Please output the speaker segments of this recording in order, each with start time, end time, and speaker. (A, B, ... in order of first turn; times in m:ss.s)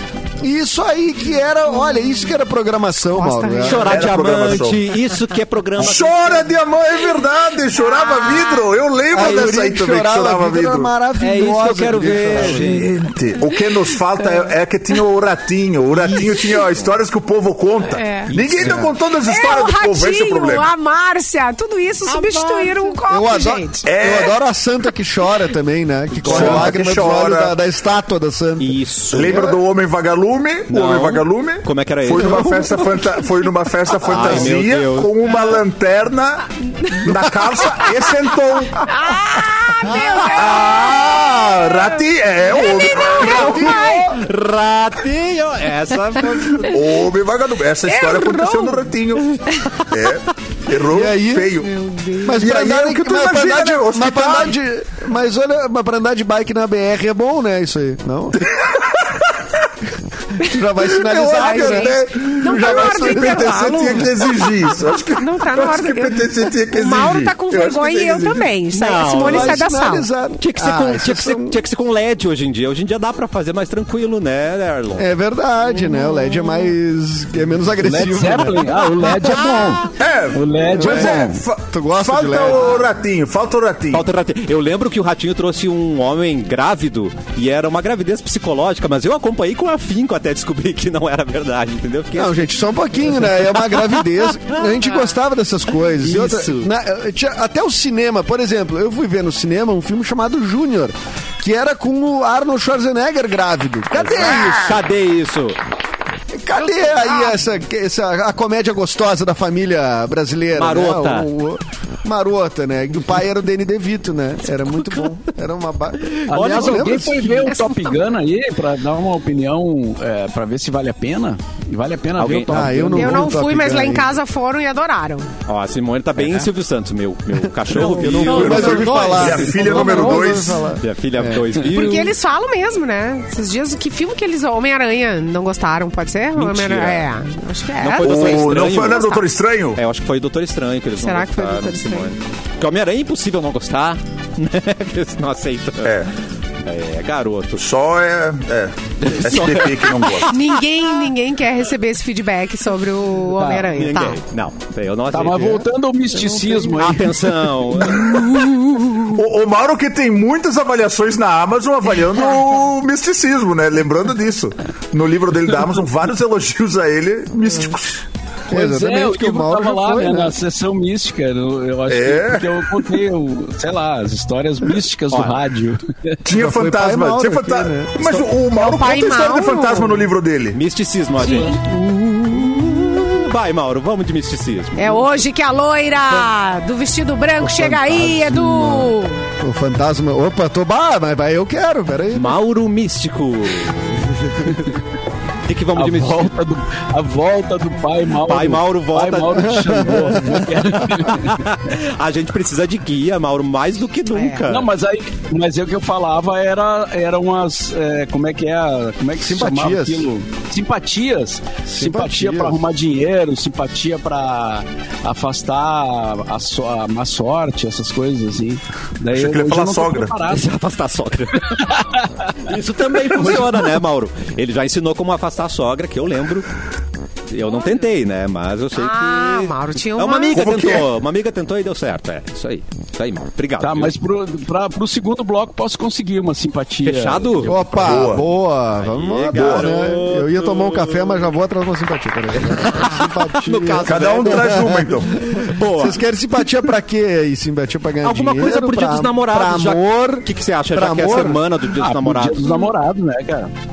0:00.4-0:04.0 A
0:03.0-0:03.9 B
0:03.6-0:06.1 C
0:03.8-0:04.8 D
0:05.8-0:10.9 D
0:07.8-0:08.7 B
0:09.1-0:12.8 A
0:11.2-0:12.9 C
0:12.4-0:20.7 D
0:16.0-0:16.3 C
0:17.9-0:18.3 B
0:18.3-0:18.9 C
0:18.6-0:18.9 A
0:19.2-0:23.9 B
0:23.1-0:29.6 A
0:23.8-0:24.4 D
0:26.2-0:26.8 C
0:26.2-0:27.5 D
0:28.6-0:29.5 C
0:29.1-0:36.4 D
0:30.7-0:32.8 C
0:34.0-0:35.3 C
0:36.8-0:37.1 B
0:37.0-0:38.9 D
0:38.8-0:42.0 B
0:40.2-0:43.6 D
0:42.5-0:44.1 B
0:43.2-0:46.8 C
0:43.2-0:44.2 A
0:46.6-0:49.3 D
0:47.8-0:48.9 B
0:49.5-0:49.7 B
0:49.9-0:51.7 D
0:50.9-0:51.6 A
0:51.6-0:52.5 B
0:52.2-0:58.5 A
0:52.4-0:54.5 D
1:00.4-1:04.0 A
1:01.0-1:08.5 D
1:01.1-1:04.3 B
1:05.1-1:10.1 B
1:08.7-1:09.6 C
1:09.2-1:11.6 A
1:10.4-1:15.1 C
1:15.0-1:18.7 A
1:15.9-1:16.4 B
1:17.8-1:21.4 E
1:20.0-1:24.0 D
1:20.7-1:22.8 A
1:23.9-1:34.6 C
1:32.1-1:44.8 A
1:36.0-1:36.7 C
1:43.9-1:45.6 C
1:46.4-1:57.4 A
1:47.0-1:47.3 B
1:50.5-1:51.3 C
1:56.1-1:57.3 C
1:56.3-2:03.3 E
1:57.5-1:57.9 B
2:02.2-2:02.8 C
2:02.5-2:04.1 A
2:02.9-2:05.3 B
2:05.4-2:12.1 C
2:07.6-2:11.5 A
2:07.8-2:10.6 D
2:08.2-2:08.9 B
2:11.7-2:19.2 B
2:16.4-2:17.0 C
2:17.8-2:19.2 C
2:18.0-2:19.8 D
2:19.8-2:26.0 C
2:21.0-2:22.1 B
2:25.8-2:26.1 D
2:26.6-2:27.6 C
2:27.6-2:30.3 D
2:29.0-2:30.4 C
2:30.3-2:34.2 B
2:33.3-2:33.8 E
2:33.7-2:35.6 C
2:35.1-2:37.3 E
2:36.4-2:36.7 A
2:36.8-2:39.1 C
2:38.1-2:38.4 D
2:39.1-2:48.0 D
2:48.5-2:50.4 A
2:48.5-2:56.2 E
2:51.9-2:52.6 D
2:55.1-2:55.4 C
2:56.2-3:00.6 D
2:56.3-2:58.2 A
2:58.5-3:00.1 B
3:00.5-3:05.1 C
3:01.2-3:01.6 B
3:04.8-3:09.2 B
3:07.4-3:12.4 A
3:12.1-3:14.8 C
3:15.4-3:16.4 C
3:15.7-3:21.4 E
3:18.2-3:24.7 C
3:19.6-3:20.4 A
3:24.1-3:24.4 B
3:24.5-3:40.5 E
3:29.2-3:30.1 A
3:31.6-3:32.6 A
3:39.1-3:40.1 D
3:40.3-3:41.7 C
3:41.5-3:42.3 E
3:42.4-3:46.5 C
3:47.3-3:53.9 C
3:47.5-3:47.8 B
3:48.7-3:50.6 B
3:50.3-3:50.9 D
3:53.6-3:57.8 E
3:56.8-3:58.0 C
3:57.4-4:11.4 A
3:57.8-3:58.3 D
3:58.8-4:01.3 C
3:59.3-3:59.8 D
4:02.4-4:06.4 C
4:03.8-4:05.2 D
4:08.0-4:12.7 C
4:11.8-4:13.5 E